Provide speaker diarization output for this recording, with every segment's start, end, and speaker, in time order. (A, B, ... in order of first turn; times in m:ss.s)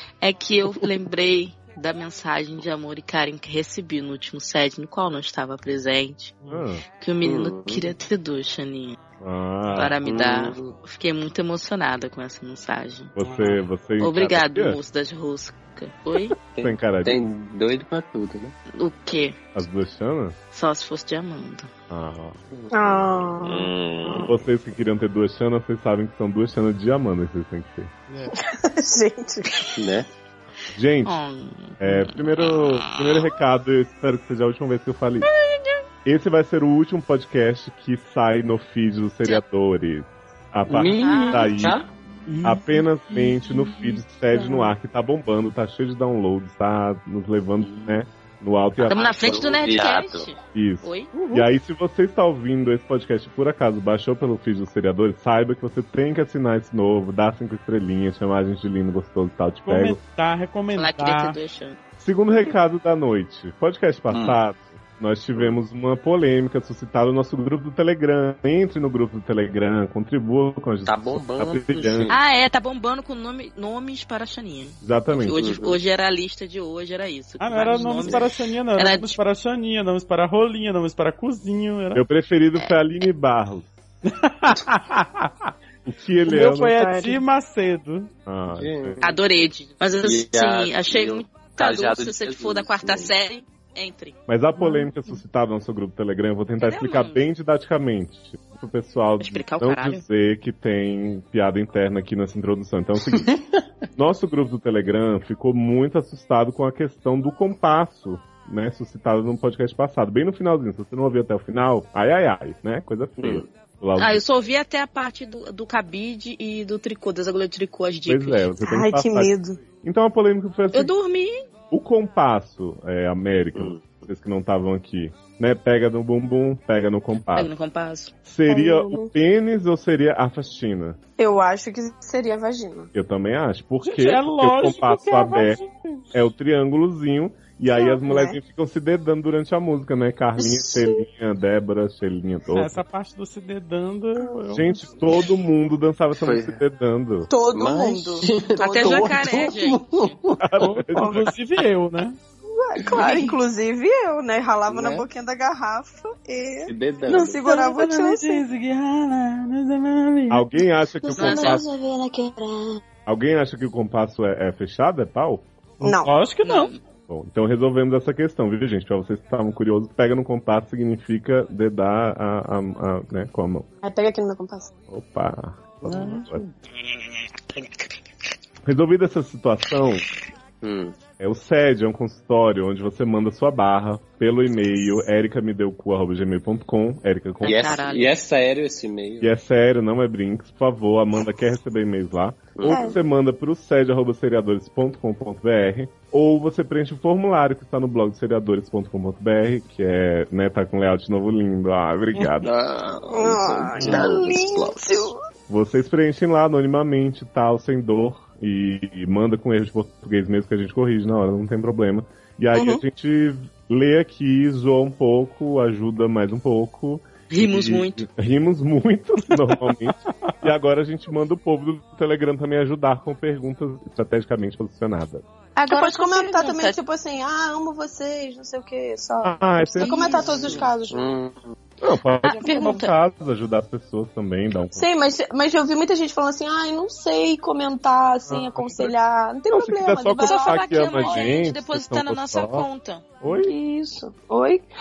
0:00.2-0:06.3 A
0:06.5-0:06.8 B
0:07.0-0:09.0 A
0:07.2-0:07.9 C
0:09.2-0:10.0 B
0:09.7-0:13.1 A
0:10.0-0:10.8 C
0:13.2-0:14.8 B
0:13.2-0:13.6 D
0:14.0-0:16.4 A
0:16.5-0:18.5 C
0:16.6-0:17.2 B
0:18.7-0:19.4 A
0:19.5-0:20.4 B
0:20.5-0:21.7 A
0:21.9-0:22.4 B
0:22.5-0:24.3 C
0:22.7-0:24.3 E
0:24.2-0:27.9 B
0:28.1-0:28.3 D
0:28.4-0:29.8 E
0:29.8-0:30.1 C
0:30.7-0:31.2 B
0:31.0-0:33.3 A
0:31.8-0:35.3 B
0:36.0-0:41.8 B
0:40.7-0:41.9 C
0:41.0-0:41.6 A
0:42.4-0:49.6 B
0:44.3-0:44.7 E
0:47.6-0:48.0 C
0:48.8-0:51.1 A
0:48.9-0:50.3 C
0:50.5-1:00.0 B
0:51.1-0:51.4 D
0:59.6-1:01.4 D
1:00.8-1:01.8 A
1:02.0-1:12.1 B
1:04.1-1:04.4 C
1:10.8-1:12.2 C
1:12.1-1:19.2 A
1:14.8-1:15.4 B
1:15.4-1:15.8 C
1:17.4-1:22.0 D
1:17.7-1:18.3 C
1:21.9-1:23.7 B
1:24.0-1:25.5 D
1:25.8-1:26.8 B
1:26.2-1:28.1 D
1:26.7-1:27.2 E
1:28.2-1:29.0 B
1:28.5-1:29.2 C
1:29.0-1:34.2 A
1:30.0-1:33.1 C
1:34.3-1:43.4 B
1:34.6-1:34.9 D
1:36.6-1:37.2 A
1:39.2-1:40.0 A
1:43.1-1:43.4 C
1:43.9-1:54.2 B
1:53.2-1:53.5 C
1:54.0-1:58.5 A
1:58.0-2:00.9 B
1:58.6-1:59.6 E
2:00.7-2:01.4 A
2:01.7-2:07.5 B
2:03.5-2:03.9 C
2:07.3-2:08.1 A
2:08.2-2:11.0 B
2:08.5-2:09.1 E
2:11.2-2:12.9 E
2:12.9-2:15.6 B
2:13.8-2:16.1 D
2:16.1-2:22.8 B
2:17.7-2:18.4 E
2:20.4-2:21.0 E
2:22.5-2:25.0 D
2:24.5-2:27.3 B
2:26.2-2:26.6 C
2:27.3-2:29.2 E
2:27.5-2:30.5 C
2:28.6-2:30.2 A
2:30.4-2:31.3 B
2:30.6-2:32.2 D
2:31.0-2:31.2 E
2:32.5-2:38.4 E
2:32.8-2:33.4 A
2:34.7-2:35.1 C
2:36.7-2:37.4 C
2:37.1-2:40.5 D
2:40.3-2:41.7 B
2:41.0-2:42.8 E
2:41.1-2:41.6 A
2:43.0-2:45.5 B
2:45.8-2:46.7 D
2:45.8-2:46.1 E
2:46.4-2:46.8 A
2:47.1-2:53.7 B
2:53.8-2:54.7 E
2:54.9-2:56.4 B
2:55.9-2:56.5 C
2:58.6-3:00.1 B
3:00.6-3:01.0 C
3:01.2-3:07.8 B
3:07.4-3:08.1 A
3:07.4-3:09.3 C
3:09.2-3:22.5 B
3:12.5-3:13.0 C
3:12.6-3:13.0 E
3:22.3-3:25.1 C
3:23.1-3:25.1 E
3:25.5-3:45.2 B
3:32.5-3:32.8 E
3:37.3-3:38.1 A
3:45.5-3:46.8 A
3:45.7-3:51.1 E
3:49.2-3:50.7 B
3:49.8-3:50.7 A
3:50.9-3:51.5 C
3:51.8-3:54.9 B
3:52.2-3:53.0 A
3:52.3-3:52.8 E
3:54.7-4:01.4 E
3:58.3-3:58.9 B
3:59.5-4:02.7 B
4:00.2-4:03.1 A
4:03.2-4:03.5 B
4:03.2-4:04.6 E